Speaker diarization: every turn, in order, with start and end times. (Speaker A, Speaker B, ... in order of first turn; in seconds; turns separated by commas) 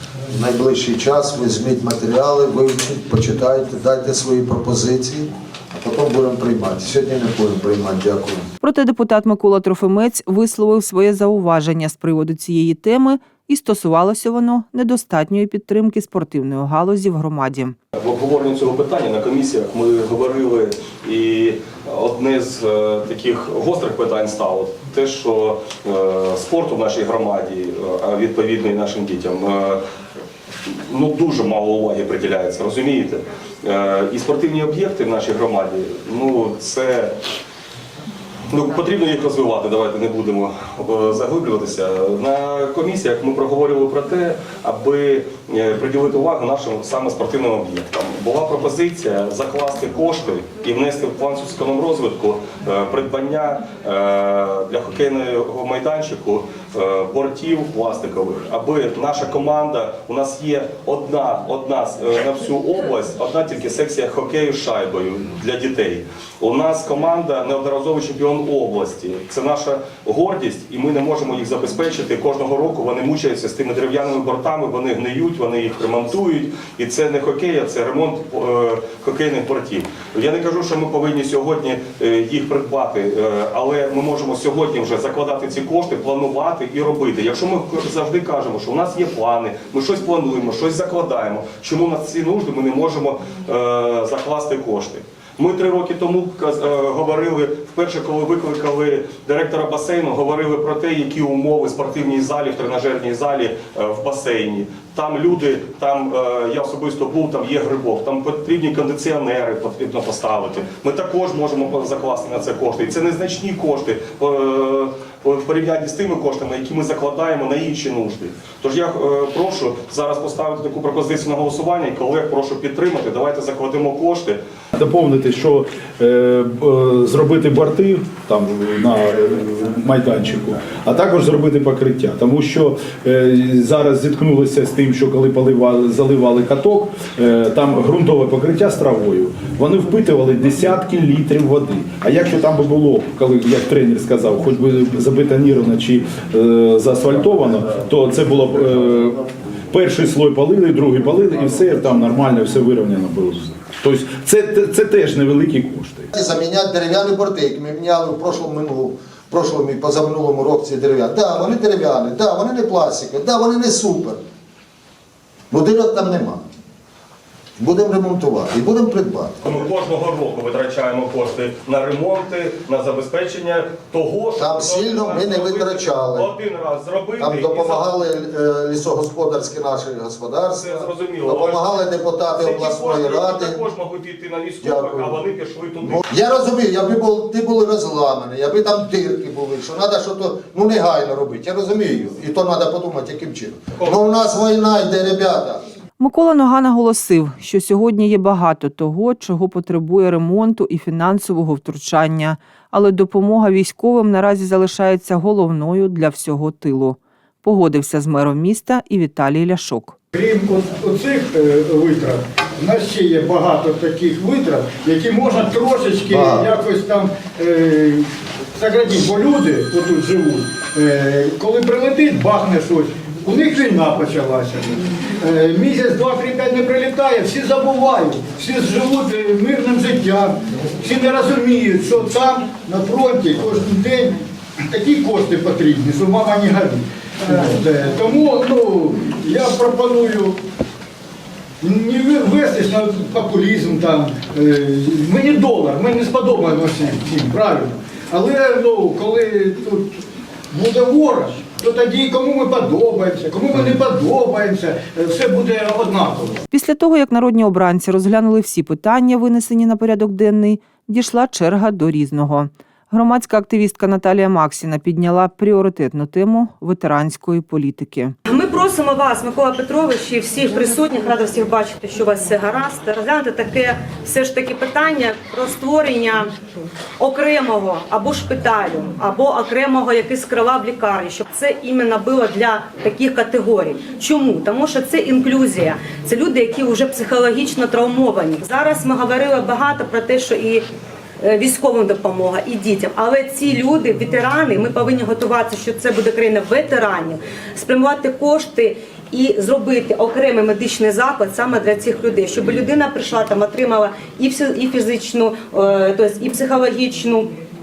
Speaker A: 0.3-8.5, Speaker B: 8.6-17.8, Speaker C: 17.9-29.8, Speaker C: 30.6-37.2, Speaker C: 38.5-124.4, Speaker D: 124.8-156.1, Speaker A: 156.2-164.2, Speaker A: 165.5-166.4, Speaker A: 167.6-169.4, Speaker C: 169.4-177.9, Speaker A: 174.4-176.3, Speaker A: 177.2-183.6, Speaker C: 180.6-186.0, Speaker A: 184.6-185.2, Speaker A: 185.8-195.6, Speaker B: 196.0-209.9, Speaker E: 210.1-240.4, Speaker A: 216.1-216.5, Speaker E: 241.6-250.0, Speaker E: 250.5-256.4, Speaker B: 256.5-268.1, Speaker F: 268.3-276.4, Speaker F: 277.0-290.6, Speaker F: 291.2-307.3